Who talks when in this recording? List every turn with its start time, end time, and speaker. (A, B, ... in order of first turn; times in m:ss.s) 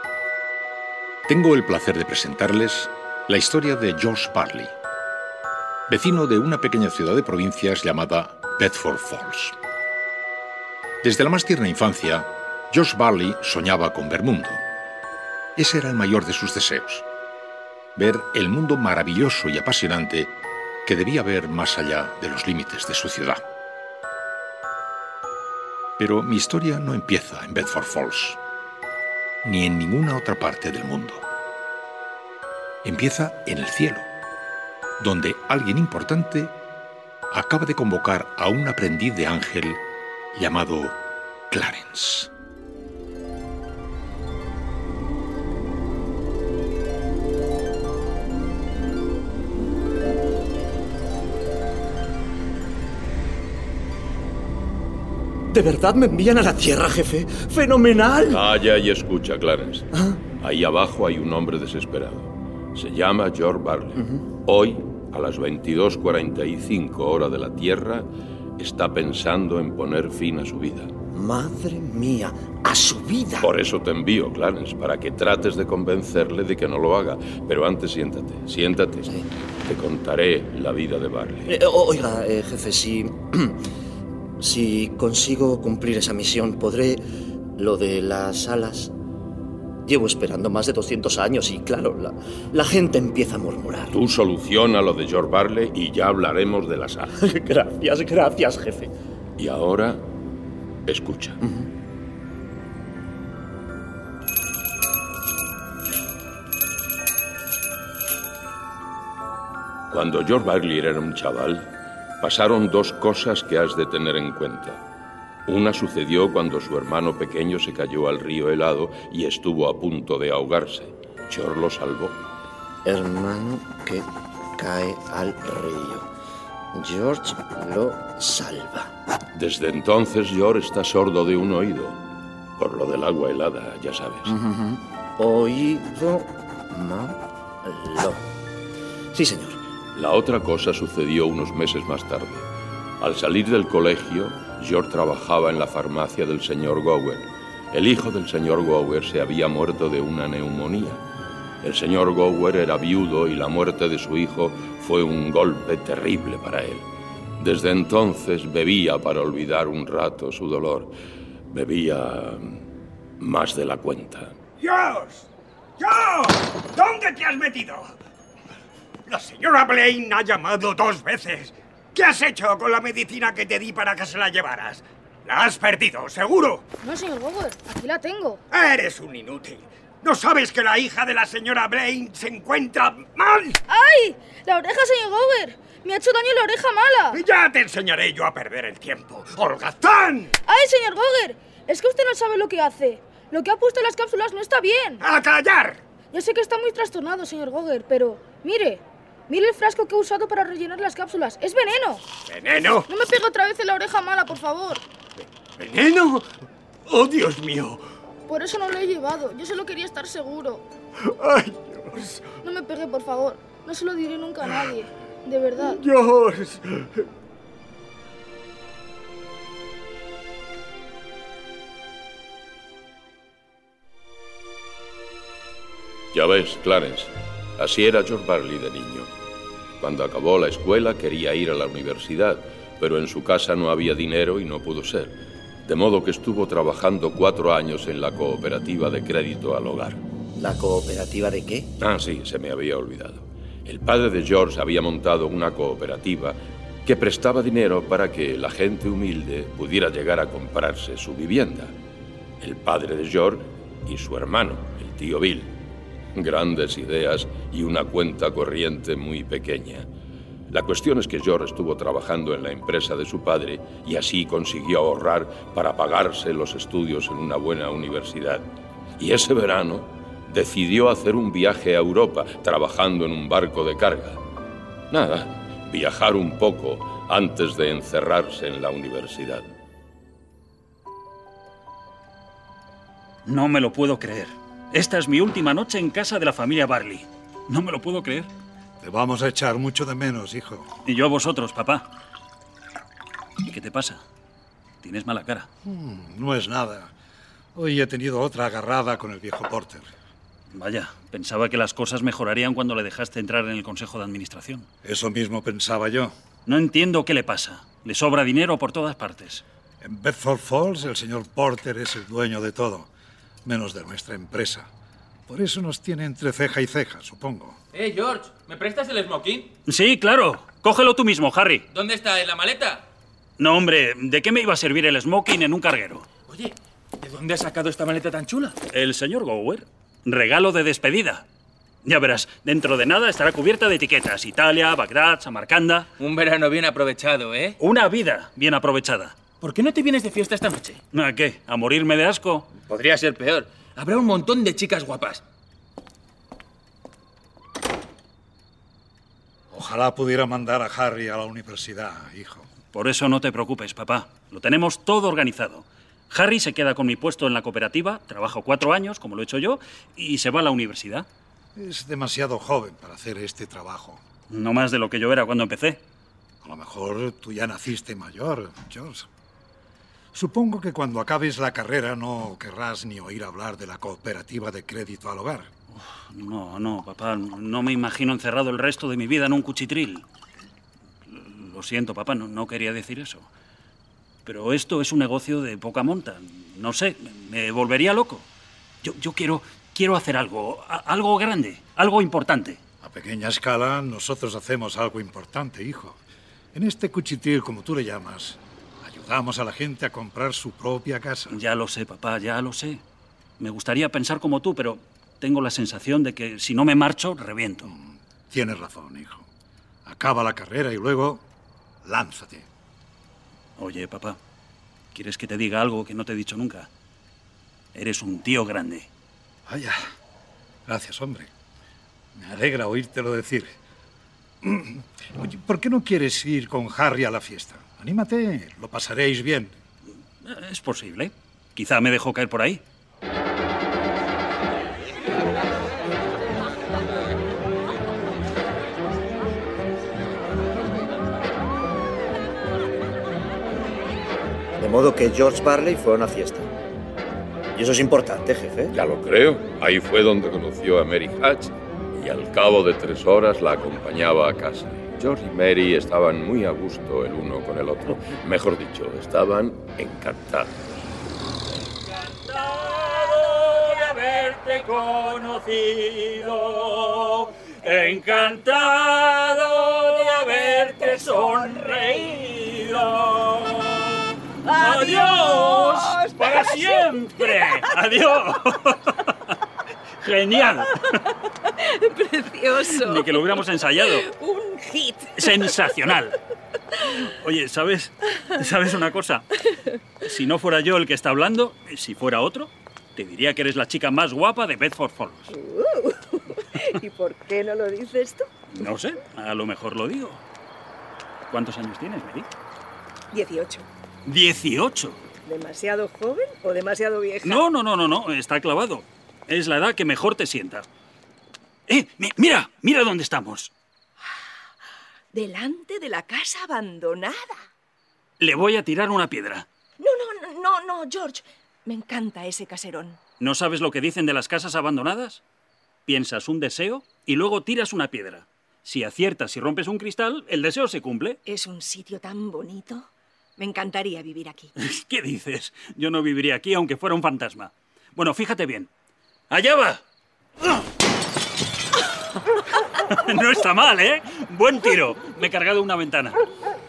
0:01.3-0:04.7 A
0:05.9-0:09.6 A
0:11.0-0:14.6 A
0:15.6-0:17.0 A
0:18.0-0:20.3 A
0:20.8-0:23.4 A
0:26.0-0:28.4 A
0:29.4-0:31.2 A
0:32.8-0:34.1 A
0:35.0-0:36.6 A
0:37.3-0:39.8 A
0:40.3-0:41.0 A
0:41.5-0:42.3 A
0:55.5-0:58.4 B
0:58.3-1:10.9 C
0:59.9-1:00.2 B
1:04.0-1:04.2 B
1:11.1-1:13.5 B
1:13.4-1:21.6 C
1:21.5-1:23.6 B
1:24.4-1:27.0 B
1:27.6-1:28.9 B
1:29.8-1:33.9 B
1:33.9-1:37.2 C
1:37.2-1:38.9 B
1:39.4-1:40.0 C
1:40.8-1:41.4 C
1:49.9-1:54.8 C
1:55.5-2:02.2 C
2:02.8-2:04.0 B
2:04.6-2:06.1 B
2:06.7-2:08.9 B
2:09.3-2:12.0 C
2:12.6-2:14.3 C
2:14.2-2:18.3 B
2:19.1-2:19.6 B
2:19.9-2:22.4 C
2:23.0-2:31.0 C
2:31.6-2:36.8 C
2:37.4-2:40.9 C
2:41.5-2:42.7 C
2:43.2-2:44.4 C
2:44.6-2:45.2 D
2:45.8-2:47.9 D
2:49.1-2:56.6 D
2:56.8-2:58.4 E
2:58.5-3:03.6 D
3:03.7-3:07.2 E
3:07.1-3:10.3 D
3:10.4-3:15.0 E
3:15.0-3:15.8 D
3:16.1-3:22.0 E
3:22.3-3:22.8 D
3:22.8-3:24.8 E
3:25.6-3:26.2 D
3:26.9-3:27.8 D
3:28.3-3:30.6 E
3:31.2-3:32.2 D
3:32.4-3:35.8 E
3:35.7-3:36.6 D
3:46.1-3:49.1 C
3:49.8-4:00.0 C
4:00.4-4:01.7 B
4:01.8-4:11.7 C
4:12.4-4:15.5 C
4:16.1-4:19.9 C
4:20.5-4:28.4 C
4:29.0-4:34.2 C
4:34.9-4:39.5 C
4:43.2-4:48.3 F
4:48.8-4:50.7 G
4:50.8-4:51.9 F
4:53.4-4:54.0 F
4:54.8-4:55.5 F
4:55.6-4:56.9 G
4:57.5-4:59.9 G
5:00.5-5:04.7 F
5:04.8-5:06.1 G
5:06.4-5:09.4 F
5:09.8-5:12.9 G
5:13.4-5:14.7 G
5:15.3-5:17.6 G
5:17.7-5:19.5 H
5:19.7-5:21.6 F
5:21.7-5:22.8 H
5:23.4-5:26.0 F
5:26.3-5:28.6 H
5:28.7-5:31.2 F
5:31.8-5:35.9 F
5:36.0-5:37.6 H
5:37.6-5:39.1 F
5:39.4-5:40.8 H
5:40.9-5:42.4 F
5:42.6-5:45.2 H
5:49.5-5:52.4 G
5:52.7-6:01.0 F
6:01.6-6:04.0 G
6:04.3-6:05.8 F
6:06.4-6:09.0 G
6:10.1-6:15.5 G
6:15.7-6:20.0 F
6:21.1-6:23.3 F
6:24.2-6:28.2 F
6:28.8-6:32.6 F
6:32.8-6:36.0 G
6:36.5-6:41.4 G
6:41.3-6:42.8 F
6:43.4-6:47.7 F
6:47.7-6:49.2 G
6:49.8-6:51.2 G
6:51.8-6:52.4 G
6:53.6-6:54.2 F
6:54.9-6:56.7 F
6:57.7-6:58.9 F
6:59.5-6:59.8 G
7:00.7-7:01.3 G
7:02.2-7:03.5 G
7:04.4-7:09.5 G
7:10.2-7:12.6 F
7:24.6-7:26.5 B
7:27.5-7:28.7 B
7:28.7-7:40.8 C
7:41.8-7:59.1 F
7:54.5-7:56.4 I
8:00.0-8:00.9 F
8:01.6-8:03.0 I
8:02.8-8:04.1 F
8:04.1-8:05.2 I
8:05.2-8:06.2 F
8:06.9-8:09.3 F
8:10.0-8:15.3 F
8:15.3-8:18.3 I
8:18.5-8:20.2 F
8:21.3-8:22.3 F
8:23.1-8:23.7 I
8:24.0-8:25.0 F
8:25.2-8:27.4 I
8:27.2-8:30.7 F
8:31.7-8:33.5 F
8:35.1-8:37.4 I
8:38.2-8:39.4 F
8:39.8-8:43.0 I
8:43.2-8:45.2 F
8:45.9-8:51.2 F
8:51.2-8:54.5 I
8:54.6-8:58.7 F
8:59.3-8:59.8 F
9:02.8-9:06.2 F